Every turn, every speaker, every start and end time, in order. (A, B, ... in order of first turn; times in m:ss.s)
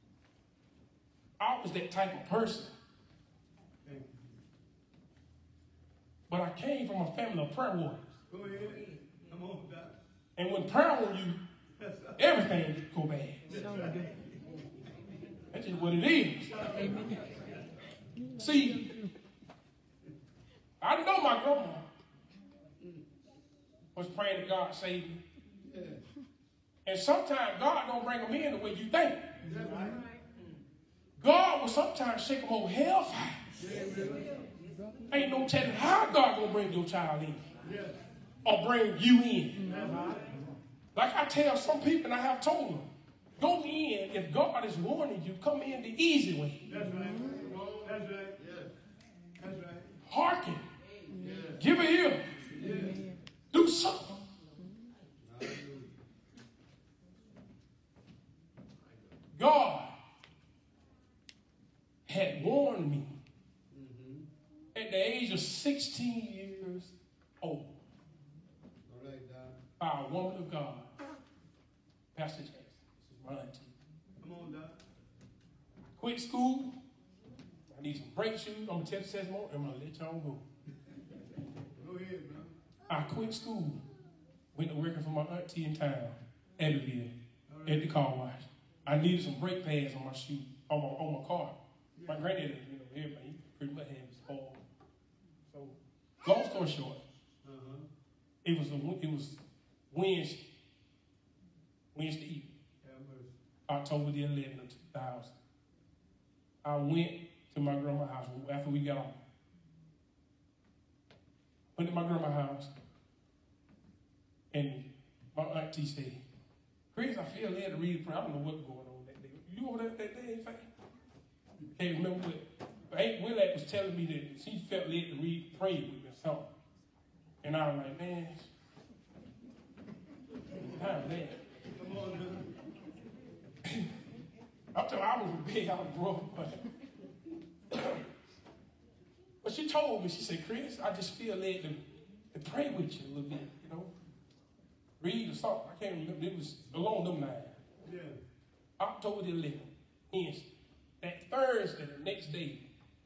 0:01.4-0:02.7 A
0:03.8-0:04.3 B
0:06.3-0:08.1 A
0:08.3-0:10.0 B
0:10.4-0:11.4 A
0:11.8-0:12.1 B
0:12.2-0:13.4 A
0:13.5-0:14.1 B
0:15.5-0:16.5 A
0:18.3-0:18.8 A
0:20.8-0:21.8 A
0:23.9-0:25.2 A
0:25.6-0:26.0 B
0:26.8-0:29.2 A
0:29.4-0:30.0 B
0:31.2-0:33.4 A
0:33.6-0:34.4 B
0:35.1-0:37.4 A
0:37.6-0:38.0 B
0:38.4-0:39.6 A
0:39.6-0:40.2 B
0:40.9-0:46.6 A
0:46.7-0:48.7 B
0:49.4-0:49.9 B
0:50.1-0:50.6 A
0:51.2-0:51.6 B
0:51.6-0:52.2 A
0:52.4-0:53.0 B
0:53.5-0:54.2 A
0:55.2-0:55.9 B
0:59.4-0:59.9 A
1:02.0-1:03.1 A
1:03.7-1:04.3 B
1:04.7-1:07.7 A
1:08.8-1:09.6 B
1:09.8-1:10.9 A
1:12.1-1:13.7 A
1:14.2-1:14.8 B
1:16.0-1:16.7 A
1:17.7-1:20.4 A
1:21.7-1:22.5 B
1:22.9-1:23.8 A
1:24.5-1:27.1 A
1:27.5-1:28.0 B
1:27.6-1:31.5 A
1:32.0-1:32.3 B
1:32.0-1:34.6 A
1:35.5-1:37.0 A
1:37.4-1:37.9 B
1:38.4-1:39.4 A
1:39.9-1:40.4 A
1:41.9-1:42.5 A
1:42.8-1:43.3 B
1:43.7-1:45.3 A
1:46.6-1:49.2 A
1:51.8-1:52.7 A
1:54.5-1:56.2 A
1:56.9-2:00.6 A
2:01.8-2:06.5 A
2:07.4-2:08.5 A
2:10.7-2:11.4 A
2:11.7-2:12.5 B
2:14.7-2:16.6 A
2:17.7-2:18.0 A
2:19.4-2:21.8 A
2:22.3-2:23.9 A
2:25.0-2:27.5 A
2:27.8-2:28.2 B
2:28.8-2:30.5 A
2:31.0-2:32.6 A